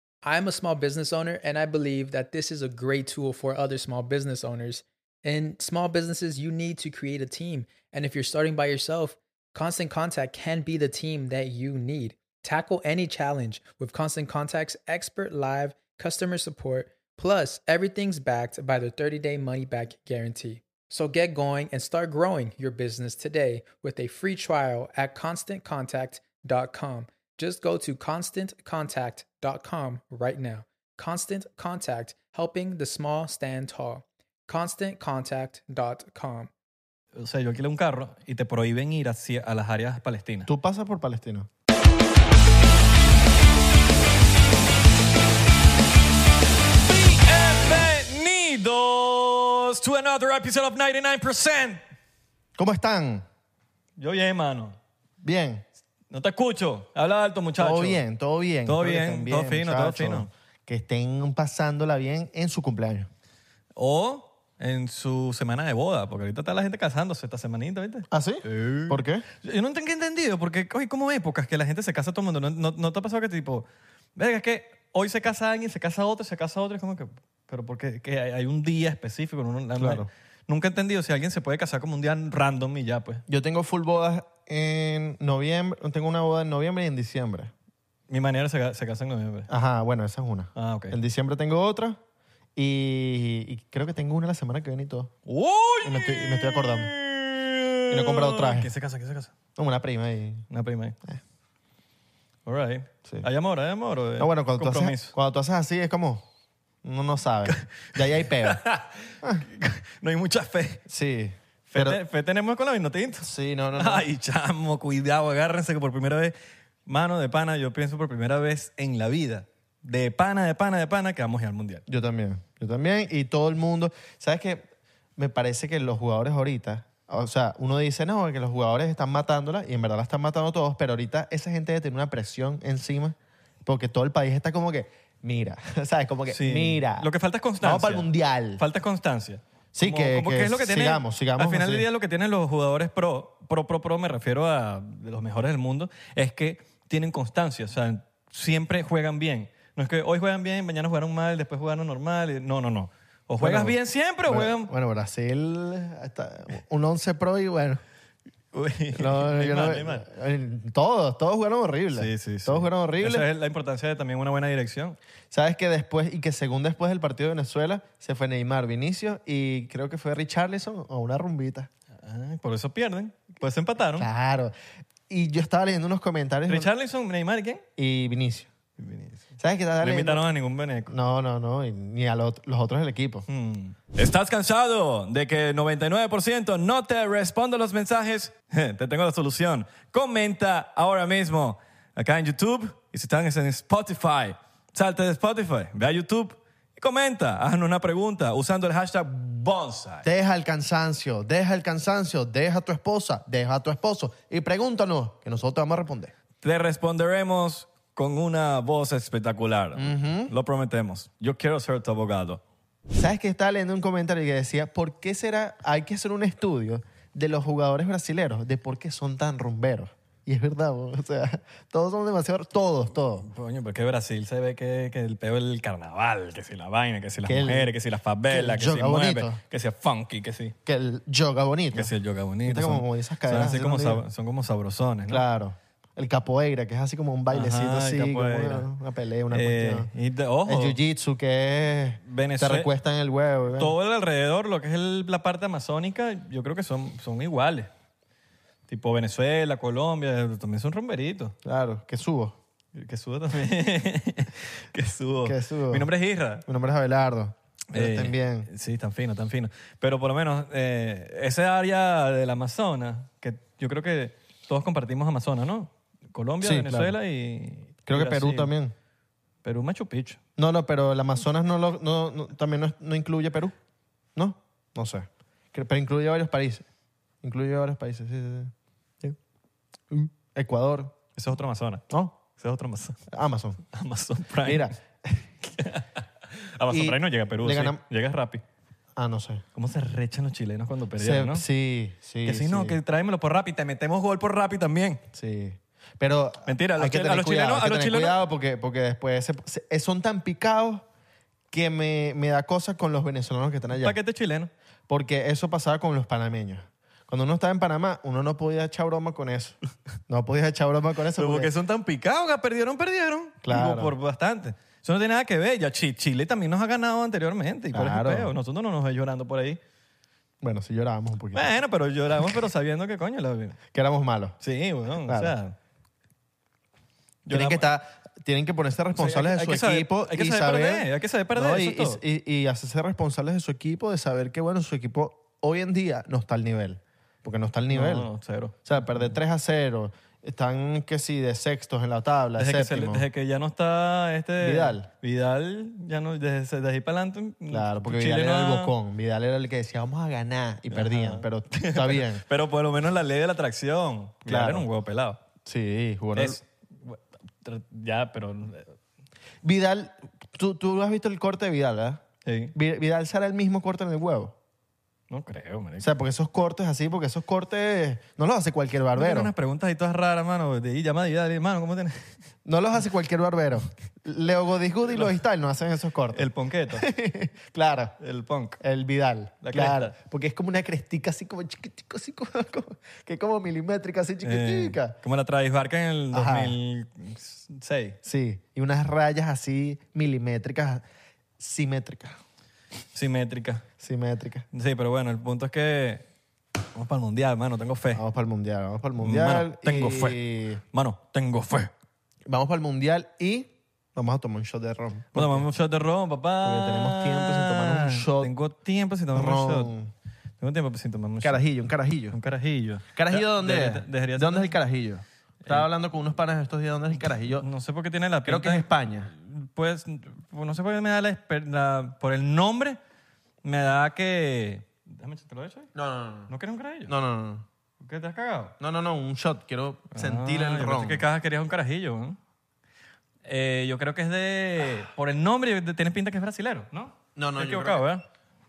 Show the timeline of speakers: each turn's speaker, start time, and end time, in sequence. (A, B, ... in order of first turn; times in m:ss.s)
0:00.2-0:36.5 A
0:37.1-0:40.5 B
0:40.5-0:41.5 C
0:46.8-0:51.8 B
0:52.6-0:53.2 C
0:54.0-0:54.8 B
0:55.2-0:55.6 C
0:56.1-0:58.0 B
0:57.6-1:03.1 C
0:58.6-1:00.3 B
1:03.8-1:23.2 B
1:08.1-1:09.3 C
1:19.8-1:20.1 C
1:23.3-1:27.5 C
1:28.1-1:29.5 B
1:29.5-1:32.0 C
1:30.6-1:31.0 B
1:32.6-1:35.1 C
1:35.3-1:39.3 B
1:35.8-1:36.9 C
1:37.9-1:38.7 C
1:39.6-1:40.5 C
1:40.5-1:41.0 B
1:42.4-1:45.1 B
1:44.2-1:46.2 C
1:46.8-1:48.6 C
1:47.5-1:50.8 B
1:50.9-1:52.0 C
1:51.7-1:56.3 B
1:53.2-1:54.0 C
1:56.8-2:01.8 B
2:01.9-2:17.1 C
2:16.3-2:34.7 B
2:17.6-2:18.6 C
2:19.7-2:21.9 C
2:33.4-2:37.8 C
2:38.5-2:40.0 B
2:38.9-2:43.3 C
2:41.9-2:45.0 B
2:45.3-2:51.7 C
2:52.0-2:54.1 B
2:54.0-2:54.5 C
2:55.1-2:56.7 C
2:56.5-2:57.6 B
2:57.8-2:58.5 C
2:58.8-2:59.3 B
2:59.4-3:00.2 C
2:59.8-3:00.9 B
3:00.9-3:03.3 C
3:03.3-3:20.1 B
3:20.0-3:26.1 C
3:26.4-3:32.4 B
3:29.8-3:30.3 C
3:32.9-3:43.3 C
3:43.2-3:50.5 B
3:47.2-3:47.7 C
3:48.3-3:49.4 C
3:50.6-3:51.9 C
3:51.7-3:55.2 B
3:52.4-3:54.0 C
3:55.1-3:59.9 C
3:57.3-3:58.7 B
3:59.3-4:00.8 B
4:00.4-4:03.7 C
4:02.0-4:02.7 B
4:03.5-4:07.7 B
4:08.7-4:11.3 B
4:11.4-4:12.4 C
4:12.7-4:16.4 B
4:15.2-4:15.9 C
4:16.4-4:18.5 C
4:17.7-4:28.5 B
4:26.4-4:27.0 C
4:27.8-4:28.7 C
4:29.4-4:30.2 B
4:30.4-4:33.5 C
4:34.1-4:36.6 C
4:37.2-4:39.2 C
4:39.9-4:40.9 C
4:41.2-4:43.0 B
4:41.9-4:42.1 C
4:43.1-4:43.6 C
4:43.7-4:44.7 B
4:44.4-4:45.2 C
4:45.4-4:48.4 B
4:46.7-4:47.8 C
4:49.0-4:49.4 C
4:49.5-4:51.4 B
4:51.0-4:52.8 C
4:52.2-4:55.0 B
4:55.1-5:00.8 C
4:56.4-4:58.2 B
5:01.5-5:04.0 C
5:03.7-5:04.5 B
5:04.9-5:11.5 C
5:11.2-5:19.6 B
5:13.4-5:13.9 C
5:17.7-5:18.3 C
5:20.4-5:21.5 C
5:21.3-5:23.6 B
5:22.2-5:22.4 C
5:23.7-5:24.4 C
5:24.4-5:25.5 B
5:24.9-5:25.3 C
5:27.2-5:27.7 B
5:27.3-5:38.1 C
5:28.9-5:32.0 B
5:37.7-5:39.1 B
5:38.6-5:43.1 C
5:42.4-5:48.7 B
5:44.4-5:44.9 C
5:47.5-5:52.2 C
5:50.7-5:55.2 B
5:54.2-5:54.7 C
5:55.4-5:56.4 C
5:56.2-5:58.7 B
5:59.4-6:02.0 C
6:02.2-6:02.5 B
6:02.5-6:04.3 C
6:05.1-6:05.9 B
6:05.8-6:09.3 C
6:08.9-6:12.1 B
6:12.4-6:18.0 C
6:16.1-6:16.9 B
6:18.0-6:18.6 B
6:18.6-6:25.0 C
6:19.4-6:19.9 B
6:24.2-6:28.0 B
6:26.1-6:26.6 C
6:28.0-6:30.8 C
6:31.4-6:32.2 C
6:32.9-6:33.6 B
6:33.8-6:34.4 C
6:34.5-6:36.0 B
6:36.7-6:38.0 B
6:37.9-6:40.6 C
6:39.0-6:40.2 B
6:40.7-6:41.7 B
6:42.2-6:45.4 C
6:45.1-6:49.7 B
6:46.4-6:48.3 C
6:49.1-6:49.9 C
6:50.4-6:51.4 B
6:51.2-6:52.2 C
6:52.1-6:54.5 B
6:52.9-6:57.4 C
6:57.0-7:02.8 B
6:58.2-6:59.1 C
7:03.4-7:05.7 B
7:05.7-7:06.3 C
7:06.3-7:06.9 B
7:06.9-7:07.4 C
7:07.8-7:08.5 B
7:08.6-7:11.0 C
7:09.9-7:12.2 B
7:13.2-7:18.0 B
7:17.2-7:17.8 C